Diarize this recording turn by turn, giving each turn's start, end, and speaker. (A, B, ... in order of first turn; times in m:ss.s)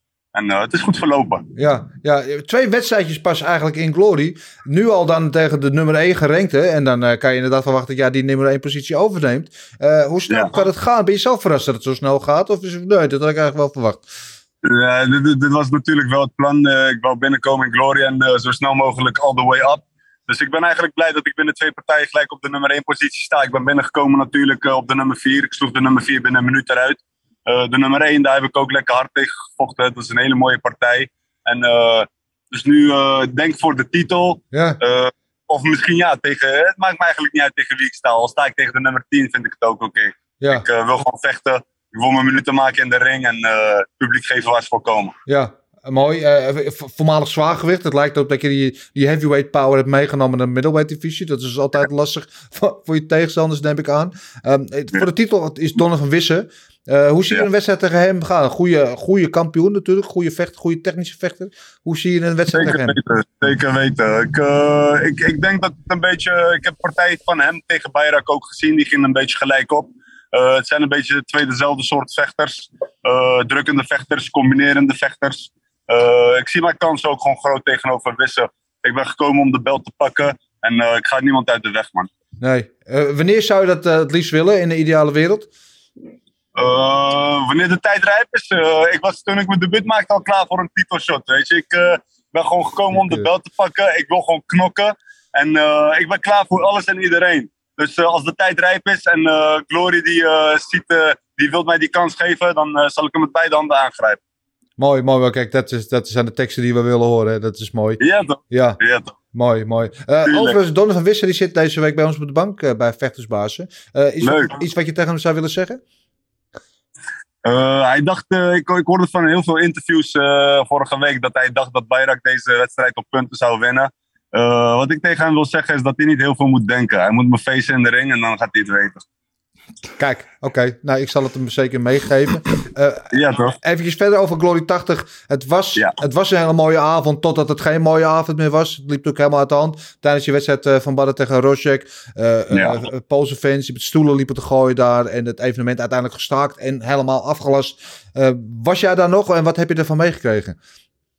0:00.3-0:01.4 A
0:01.6-0:14.0 B
0:10.3-0:10.5 A
0:14.6-0:45.1 A
0:34.5-0:34.8 B
0:45.3-1:03.0 B
1:02.5-1:22.1 A
1:22.4-1:25.5 B
1:26.6-1:44.2 A
1:33.0-1:33.3 B
1:44.8-1:48.8 B
1:48.0-1:49.2 A
1:49.3-1:55.8 B
1:50.3-1:50.6 A
1:54.2-1:54.6 A
1:57.4-2:09.0 A
2:10.0-2:30.6 B
2:13.1-2:13.6 A
2:22.5-2:22.8 A